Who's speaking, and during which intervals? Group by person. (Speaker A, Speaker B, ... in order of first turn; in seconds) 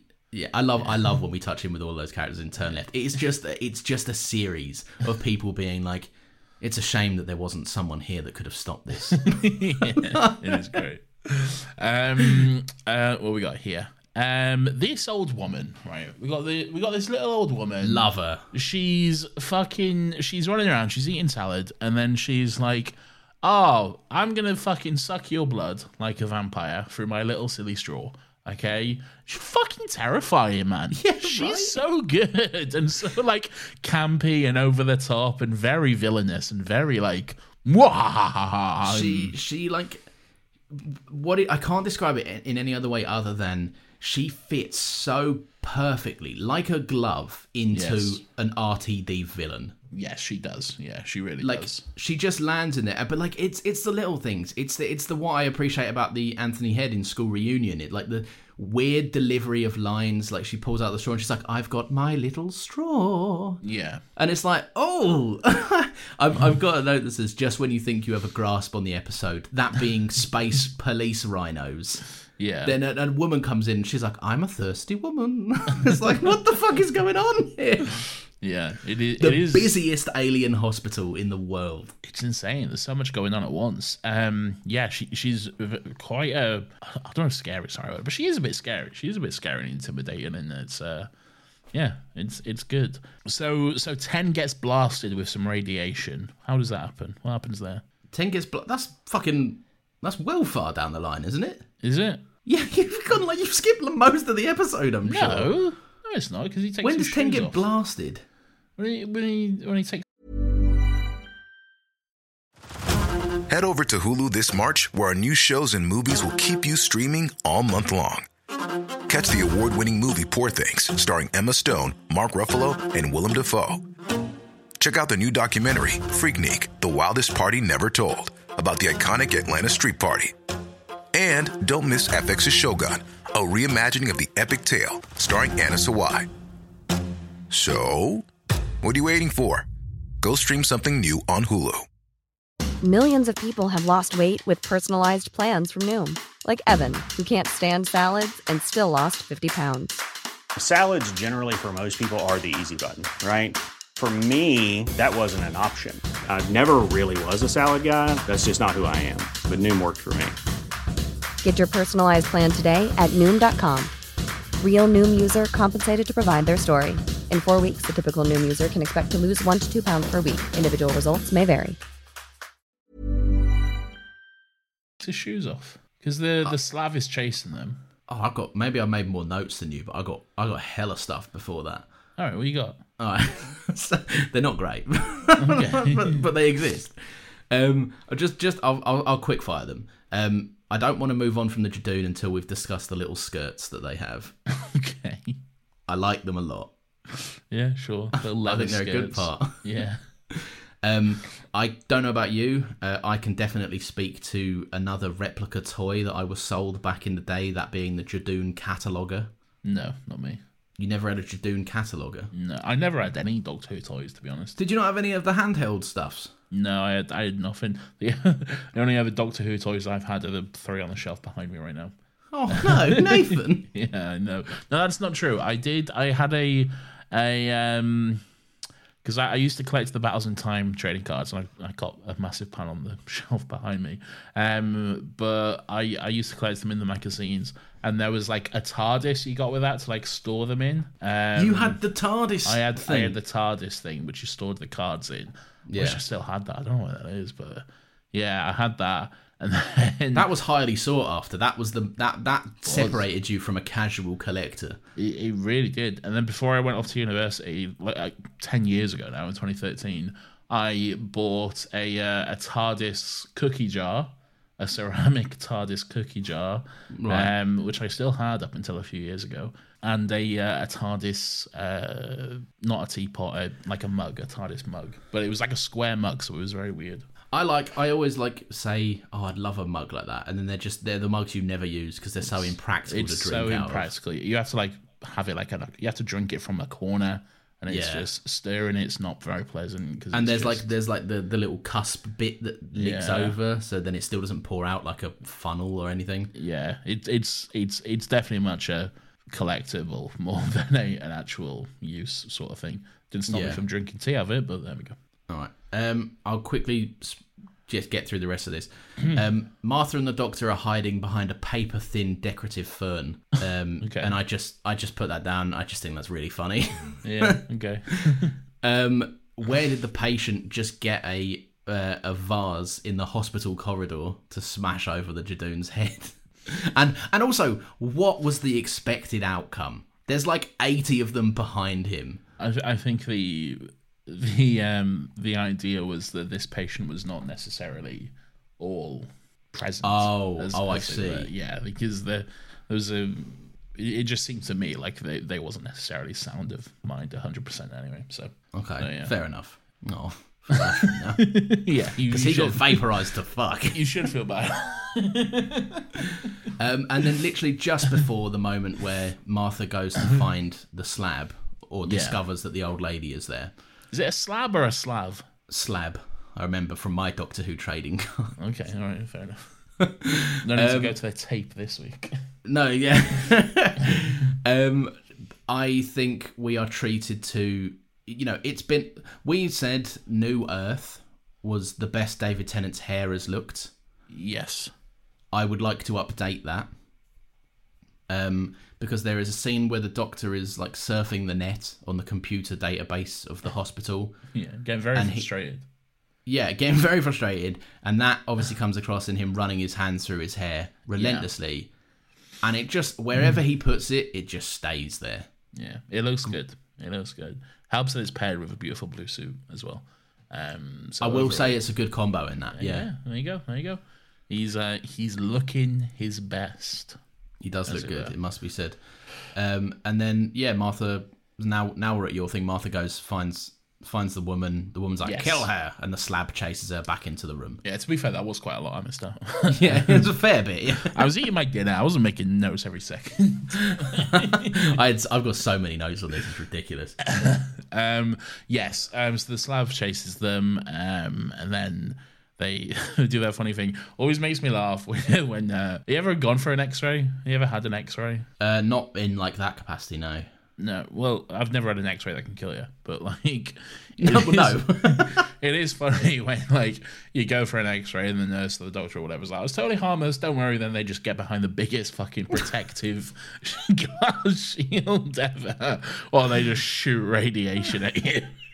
Speaker A: 0.3-10.7, 17.8-18.4, 30.9-31.8, 38.8-40.1, 40.7-49.8, 51.4-63.6, 64.2-72.1, 72.6-78.0, 79.2-81.9, 98.1-101.7, 102.4-105.6, 106.8-108.2, 178.1-181.8, 183.0-194.3, 195.9-196.7, 198.2-199.6, 200.8-209.3, 210.8-212.3, 214.6-216.3, 222.3-223.7, 241.3-243.2, 245.7-246.0, 250.1-254.8, 266.9-267.3, 277.3-283.9, 287.7-288.1, 290.1-296.3, 303.3-303.6, 305.3-332.2, 339.8-341.3, 348.5-351.5, 352.1-353.9, 356.6-363.5, 365.5-368.4, 369.8-370.9, 372.4-383.7, 385.3-386.7, 388.1-394.2, 394.9-395.3, 396.2-401.7, 402.4-405.3, 411.0-412.9, 417.4-427.6, 429.5-431.0, 433.6-437.0, 448.4-450.3, 454.0-455.2
Speaker B: 9.2-39.3, 47.7-48.2, 49.9-51.8, 63.6-64.0, 72.4-72.7, 78.4-79.7, 82.0-91.1, 91.7-97.8, 101.8-102.2, 105.0-107.6, 108.8-110.0, 175.0-177.8, 182.2-182.8, 185.4-186.2, 194.5-195.4, 197.5-200.0, 209.6-210.4, 212.3-214.6, 216.5-221.9, 222.5-228.2, 229.0-241.8, 242.4-250.3, 252.6-253.0, 254.9-277.1, 282.3-290.7, 292.7-293.4, 296.3-304.9, 313.8-314.1, 317.0-318.3, 332.4-349.1, 350.9-352.8, 353.7-356.0, 361.9-362.2, 363.9-365.3, 368.4-369.8, 370.4-372.2, 384.1-384.7, 394.3-395.6, 400.9-401.3, 405.5-411.6, 412.5-417.0, 417.7-418.1, 425.0-425.5, 427.6-430.1, 430.8-434.7, 437.0-448.3, 450.6-468.4
Speaker C: 113.5-118.3, 119.1-123.8, 124.8-130.3, 131.1-136.3, 137.5-138.2, 138.8-139.6, 140.2-141.8
Speaker D: 142.8-150.0, 161.4-163.9, 164.6-171.8
Speaker E: 150.6-160.3